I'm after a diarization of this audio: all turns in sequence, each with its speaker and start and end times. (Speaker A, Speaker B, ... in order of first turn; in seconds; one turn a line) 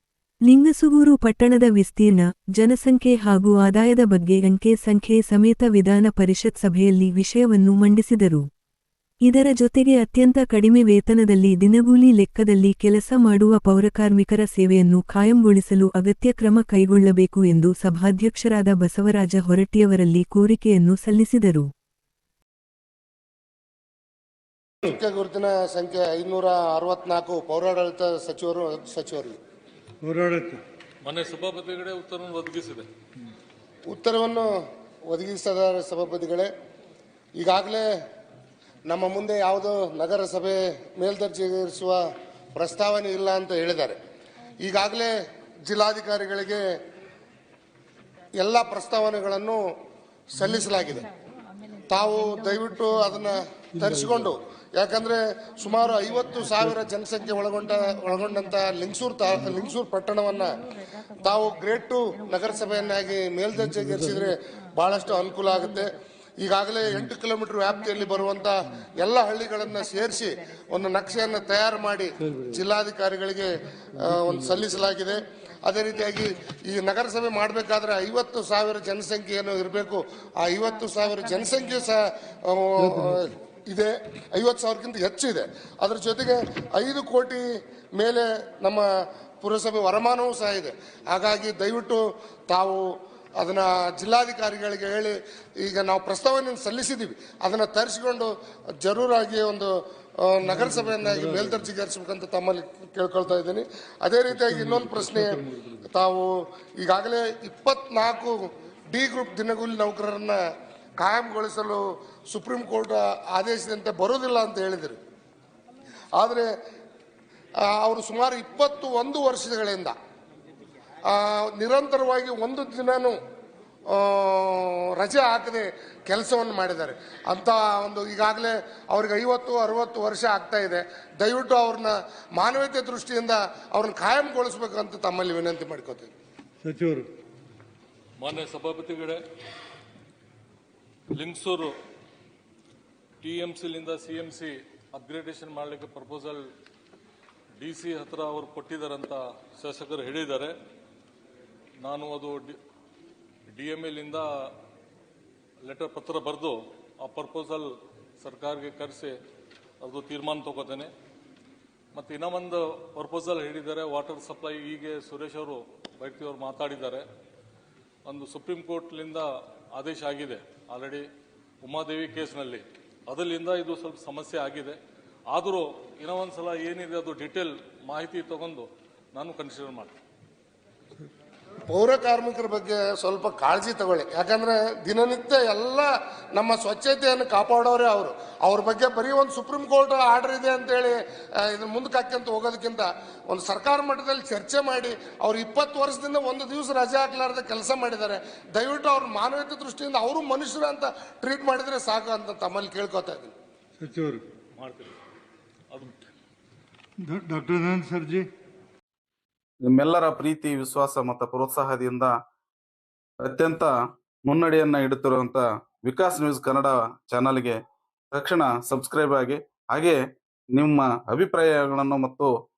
Speaker A: 0.5-8.5
Speaker A: 9.2-21.7
Speaker B: 24.9-29.4
Speaker C: 30.0-30.6
Speaker D: 31.0-32.9
Speaker B: 33.9-34.5
Speaker B: 35.1-36.5
Speaker B: 37.4-37.9
Speaker B: 38.9-42.0
Speaker B: 42.5-44.0
Speaker B: 44.6-45.1
Speaker B: 45.7-46.6
Speaker B: 48.4-49.6
Speaker B: 50.4-51.1
Speaker B: 51.9-60.5
Speaker C: 53.8-54.2
Speaker B: 61.2-87.4
Speaker C: 63.7-64.1
Speaker C: 72.2-72.6
Speaker C: 74.0-74.5
Speaker B: 88.0-88.8
Speaker B: 89.4-92.8
Speaker B: 93.4-108.4
Speaker C: 100.5-101.6
Speaker C: 104.3-105.8
Speaker B: 108.9-110.4
Speaker B: 111.0-115.0
Speaker B: 116.2-116.5
Speaker B: 117.6-120.0
Speaker B: 121.1-123.2
Speaker B: 123.9-136.1
Speaker C: 136.6-137.1
Speaker D: 138.2-139.2
Speaker D: 141.1-141.7
Speaker D: 143.2-146.4
Speaker D: 147.6-150.6
Speaker D: 151.8-152.6
Speaker D: 153.5-154.3
Speaker D: 155.7-157.7
Speaker D: 158.2-159.2
Speaker D: 159.8-160.9
Speaker D: 161.9-167.1
Speaker D: 168.1-171.1
Speaker D: 171.6-174.8
Speaker D: 175.3-179.9
Speaker B: 181.7-203.3
Speaker C: 203.8-204.2
Speaker D: 204.6-205.0
Speaker D: 205.7-206.0
Speaker C: 207.0-208.3
Speaker E: 209.6-212.2
Speaker E: 213.2-213.7
Speaker E: 214.2-217.6
Speaker E: 218.1-220.0
Speaker E: 220.5-222.3